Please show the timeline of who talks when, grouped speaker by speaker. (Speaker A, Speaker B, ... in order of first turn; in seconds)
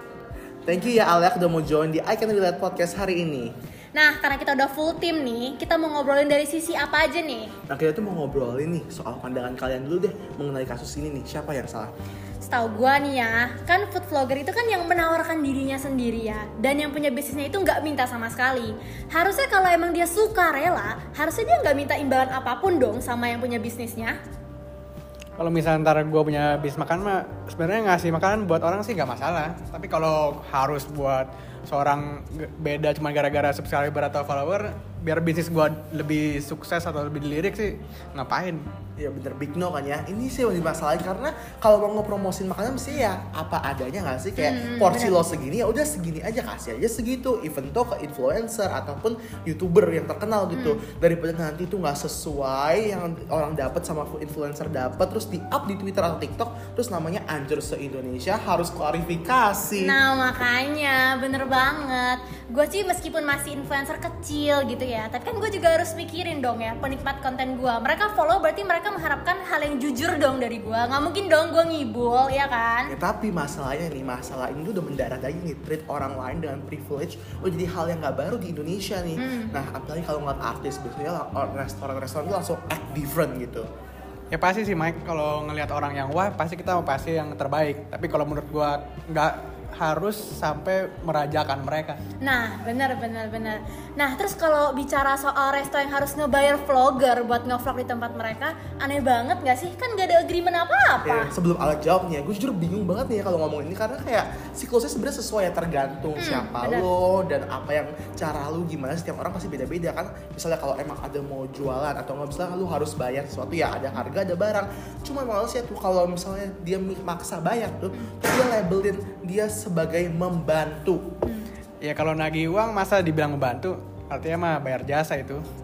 Speaker A: 0.6-3.5, 7.7-11.9, 39.0-60.0, 72.9-83.7, 101.0-121.0
Speaker B: 3.9-7.5, 12.4-24.2, 44.4-45.2, 50.5-50.8, 59.8-73.0, 79.2-79.5, 92.2-101.3, 106.2-106.9
Speaker C: 25.4-38.6, 84.3-92.0, 121.8-125.4